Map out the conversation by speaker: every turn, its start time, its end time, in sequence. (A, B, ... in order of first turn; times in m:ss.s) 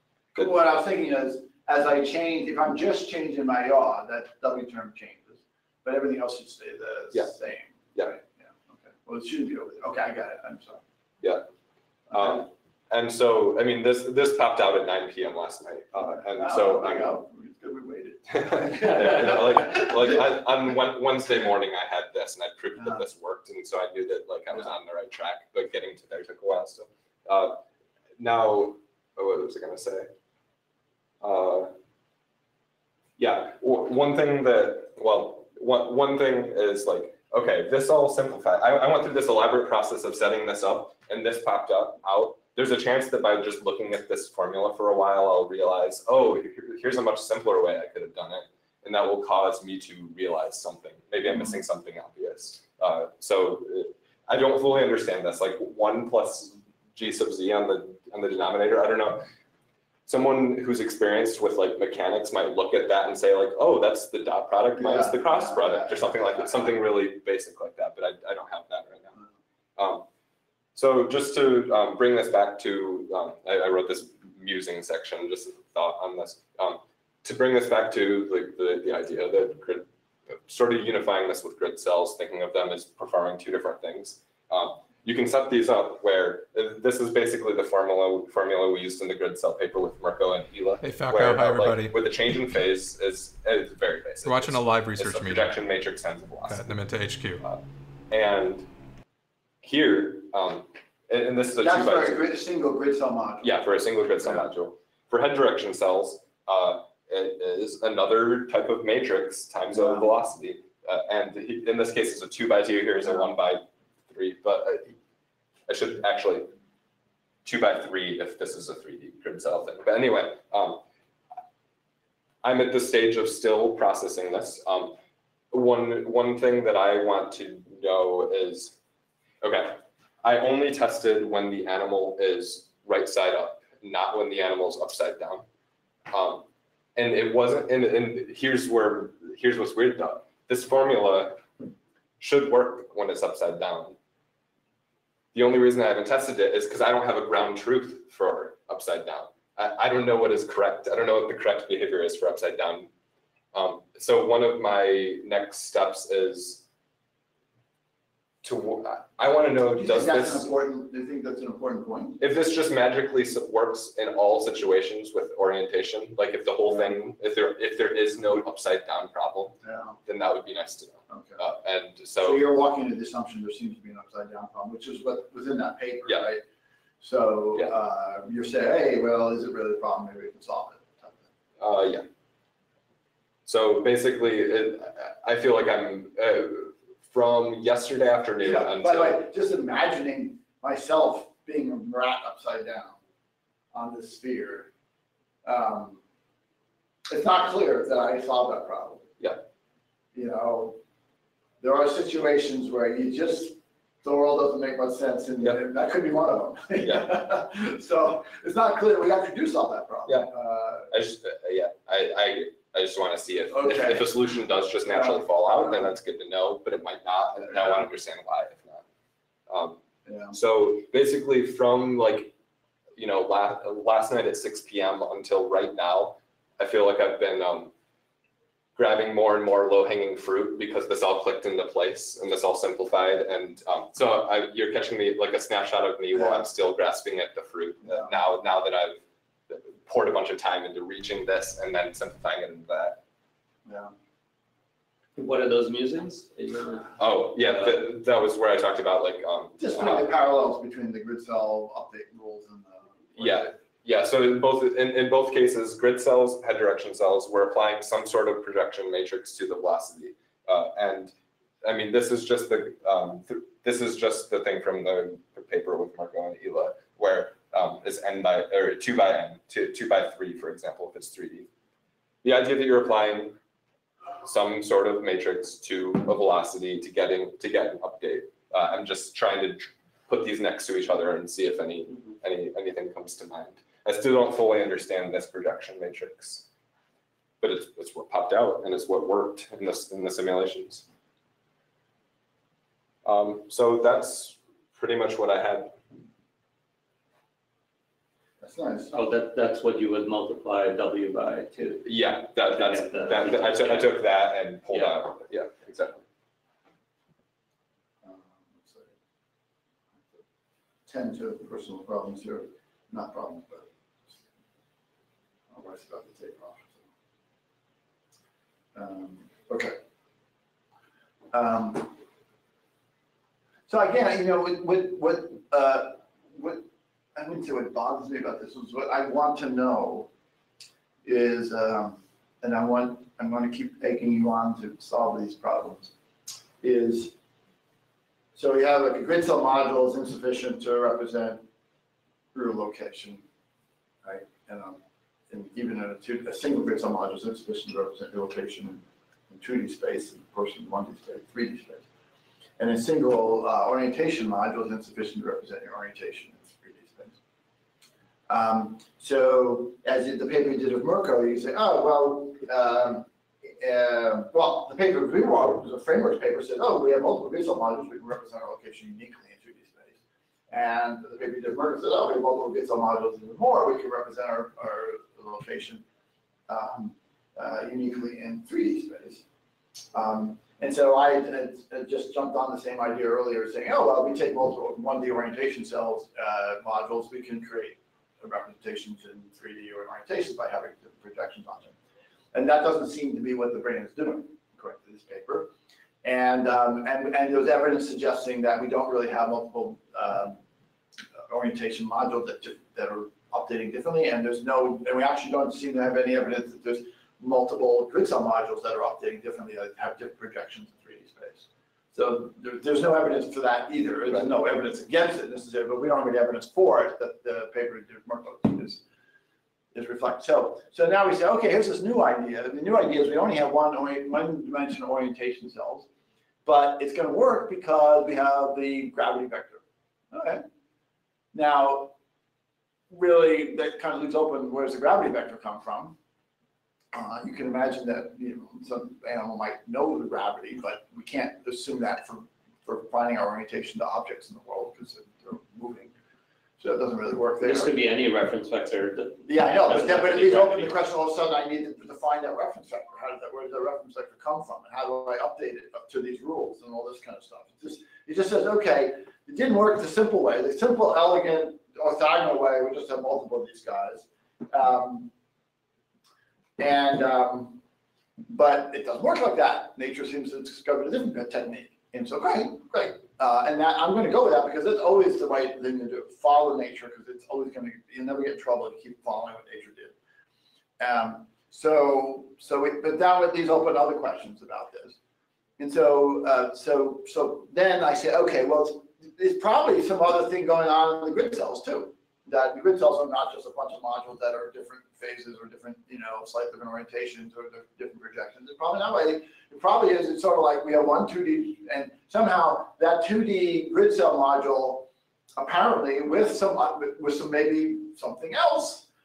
0:00.3-0:10.8 A
0:12.1-0:17.1 B
0:16.1-0:20.2 A
0:18.3-0:27.6 B
0:28.2-0:30.1 B
0:31.2-0:31.7 B
0:33.2-0:59.3 B
1:00.0-1:09.2 B
1:04.8-1:06.8 A
1:09.8-1:10.0 B
1:10.7-1:19.8 B
1:20.4-1:36.8 B
1:30.8-1:31.9 C
1:34.2-1:35.6 C
1:36.4-1:37.4 C
1:37.4-1:38.7 B
1:39.6-1:42.3 B
1:41.6-1:43.6 A
1:43.4-1:54.9 B
1:49.7-1:50.0 A
1:55.7-1:56.5 B
1:57.4-2:00.8 B
2:02.4-2:05.0 B
2:05.5-2:08.7 B
2:09.4-2:15.4 B
2:16.1-2:16.4 B
2:17.0-2:21.4 B
2:22.2-2:24.0 B
2:25.3-2:32.9 B
2:33.5-2:36.6 B
2:38.4-2:40.5 B
2:39.7-2:42.2 A
2:42.2-2:52.4 B
2:49.6-2:50.0 A
2:51.1-2:51.4 A
2:52.2-2:56.4 A
2:57.0-3:01.2 A
3:01.6-3:02.0 B
3:03.4-3:09.2 B
3:08.4-3:13.0 A
3:13.7-3:14.7 A
3:15.4-3:16.0 A
3:17.1-3:19.1 A
3:20.1-3:20.8 A
3:21.6-3:30.9 A
3:26.8-3:27.1 B
3:30.9-3:38.8 B
3:33.5-3:34.2 A
3:34.8-3:35.9 A
3:39.5-3:39.8 B
3:40.0-3:40.4 A
3:40.3-3:42.3 B
3:43.0-3:47.7 B
3:48.8-4:03.0 B
3:56.1-3:56.4 A
3:57.8-3:58.1 A
4:03.6-4:03.9 A
4:05.1-4:06.9 D
4:07.0-4:10.1 B
4:09.6-4:13.5 A
4:13.2-4:31.5 B
4:32.2-4:33.4 B
4:34.2-4:46.4 B
4:47.4-4:50.8 B
4:53.0-4:55.8 B
4:58.4-4:58.9 A
4:58.9-5:01.8 D
5:01.8-5:06.0 B
5:02.5-5:03.9 D
5:08.0-5:08.9 A
5:10.9-5:13.7 A
5:15.5-5:16.8 A
5:18.7-5:19.8 A
5:21.3-5:22.0 A
5:23.7-5:26.6 A
5:27.1-5:30.1 A
5:31.0-5:35.9 A
5:36.6-5:37.1 A
5:38.3-5:41.4 A
5:42.3-5:43.2 A
5:44.0-5:51.8 A
5:52.6-5:57.2 A
5:58.3-6:03.1 A
6:03.6-6:10.0 A
6:10.5-6:15.8 A
6:16.5-6:19.2 A
6:19.9-6:31.7 A
6:32.3-6:35.5 A
6:36.0-6:40.4 A
6:41.3-6:58.8 A
6:59.7-7:05.9 A
7:06.4-7:10.4 A
7:11.3-7:11.9 A
7:12.9-7:16.0 A
7:16.9-7:25.9 A
7:26.6-7:27.7 A
7:27.4-7:30.7 D
7:29.2-7:45.1 A
7:46.6-7:47.6 A
7:48.3-7:59.9 A
8:00.8-8:05.0 A
8:05.6-8:28.9 A